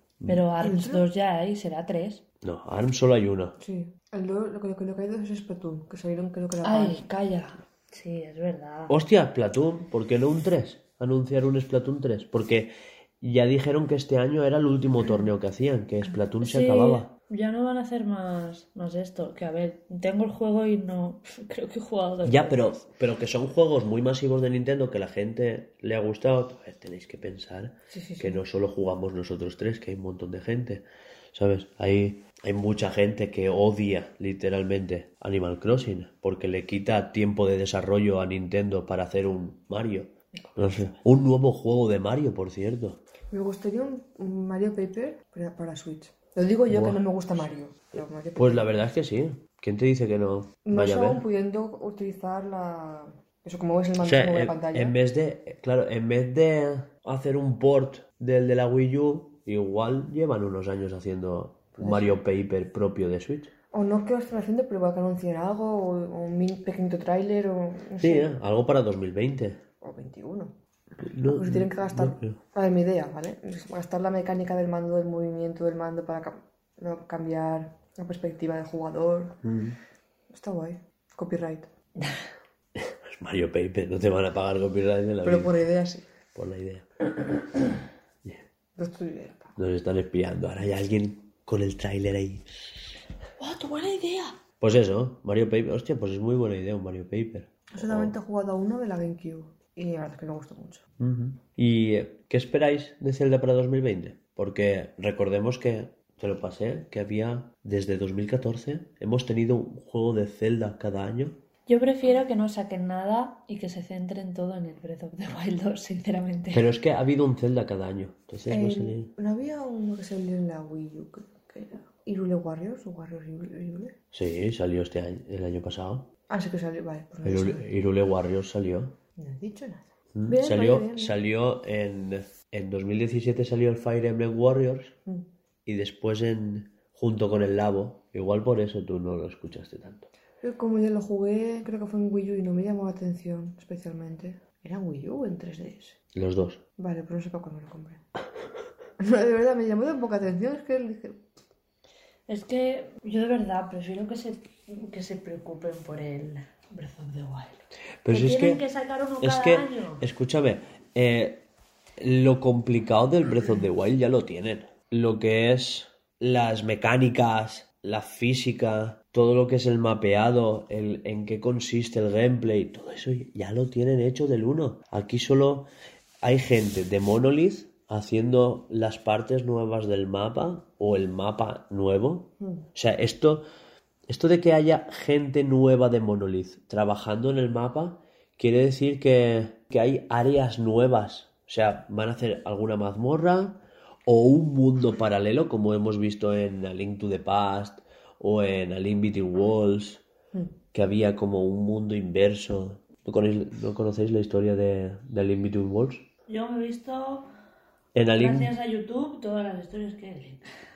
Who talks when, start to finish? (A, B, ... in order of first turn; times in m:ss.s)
0:00.3-0:02.2 A
0:00.6-0:01.0 B
0:02.4-0:03.5 C
0:03.6-0:07.0 B
0:06.6-0:08.9 A
0:08.9-0:17.1 C
0:16.4-0:22.6 A
0:22.2-0:43.0 C
0:27.9-0:28.4 B
0:43.3-0:48.8 B
0:46.7-0:47.0 C
0:48.4-0:51.2 C
0:50.6-0:55.0 B
0:54.0-1:03.5 C
1:01.8-1:02.2 B
1:03.7-1:08.4 B
1:08.0-1:09.6 C
1:09.8-1:10.5 B
1:11.0-1:12.4 C
1:11.3-1:19.4 B
1:19.4-1:19.8 C
1:20.3-1:21.7 B
1:22.8-1:25.5 C
1:25.2-1:26.0 B
1:26.3-1:26.9 C
1:28.8-1:29.5 B
1:29.6-1:32.9 C
1:33.4-1:34.4 A
1:34.6-1:38.1 C
1:37.7-1:40.8 B
1:41.0-1:51.4 C
1:51.7-1:56.7 A
1:56.5-1:59.1 C
1:58.5-2:03.9 B
2:04.1-2:06.1 C
2:06.3-2:07.7 B
2:07.2-2:08.9 C
2:09.2-2:11.1 B
2:10.1-2:14.9 C
2:15.6-2:20.1 C
2:20.4-2:26.0 B
2:26.1-2:26.6 C
2:26.8-2:28.0 B
2:29.0-2:31.2 B
2:32.3-2:40.0 A
2:38.0-2:38.6 C
2:39.2-2:41.4 C
2:42.0-2:55.7 C
2:56.2-3:03.4 C
3:04.1-3:20.0 C
3:20.7-3:26.0 C
3:26.3-3:27.3 A
3:27.9-3:28.5 C
3:28.1-3:30.4 A